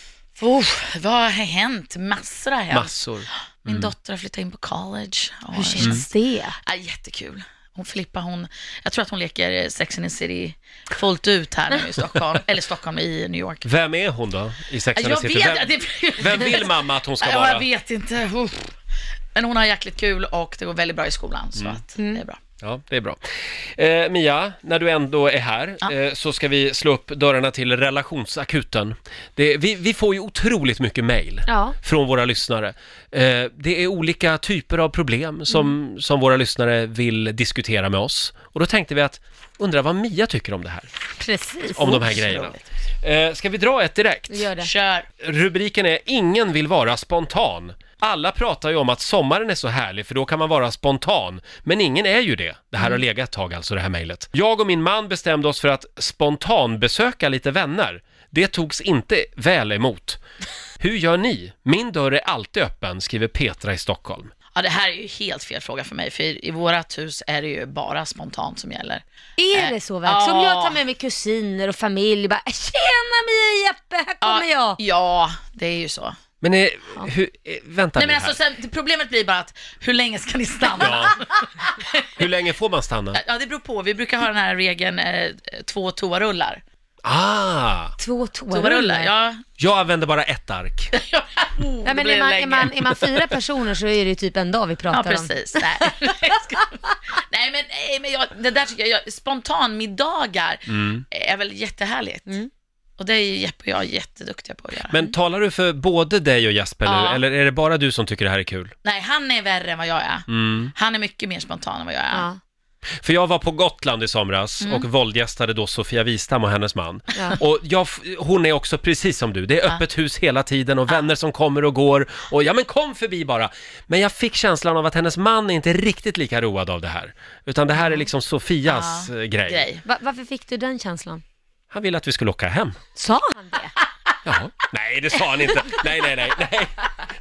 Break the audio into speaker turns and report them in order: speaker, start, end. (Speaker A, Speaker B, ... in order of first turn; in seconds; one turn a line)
Speaker A: 0.4-2.9
Speaker B: 2.7-3.9
Speaker A: 3.6-6.0
Speaker C: 5.5-6.6
Speaker A: 6.6-13.7
Speaker B: 13.6-17.7
Speaker A: 14.9-18.8
Speaker A: 19.3-22.4
Speaker C: 22.0-22.2
Speaker B: 22.6-40.9
Speaker C: 31.5-31.8
Speaker C: 41.2-42.0
Speaker B: 41.7-44.5
Speaker A: 42.1-42.7
Speaker C: 44.3-44.7
Speaker A: 44.6-45.1
Speaker B: 45.2-60.2
Speaker B: 60.8-64.3
Speaker A: 64.5-70.8
Speaker C: 69.4-74.8
Speaker A: 74.2-76.2
Speaker B: 76.4-78.4
Speaker A: 78.0-82.2
Speaker B: 80.8-81.2
Speaker B: 82.2-83.2
Speaker A: 83.1-86.6
Speaker B: 87.0-87.9
Speaker C: 88.0-89.1
Speaker A: 88.5-89.4
Speaker B: 89.6-90.9
Speaker A: 90.9-93.0
Speaker C: 91.8-95.9
Speaker A: 94.9-102.3
Speaker B: 100.7-101.0
Speaker A: 103.0-105.0
Speaker B: 104.9-108.7
Speaker A: 106.8-107.2
Speaker A: 108.8-112.3
Speaker B: 110.3-110.7
Speaker C: 112.1-112.4
Speaker B: 113.0-129.6
Speaker A: 114.6-114.9
Speaker A: 120.9-121.1
Speaker A: 128.7-129.8
Speaker C: 129.8-131.2
Speaker B: 131.7-132.8
Speaker C: 132.9-133.8
Speaker B: 134.2-137.0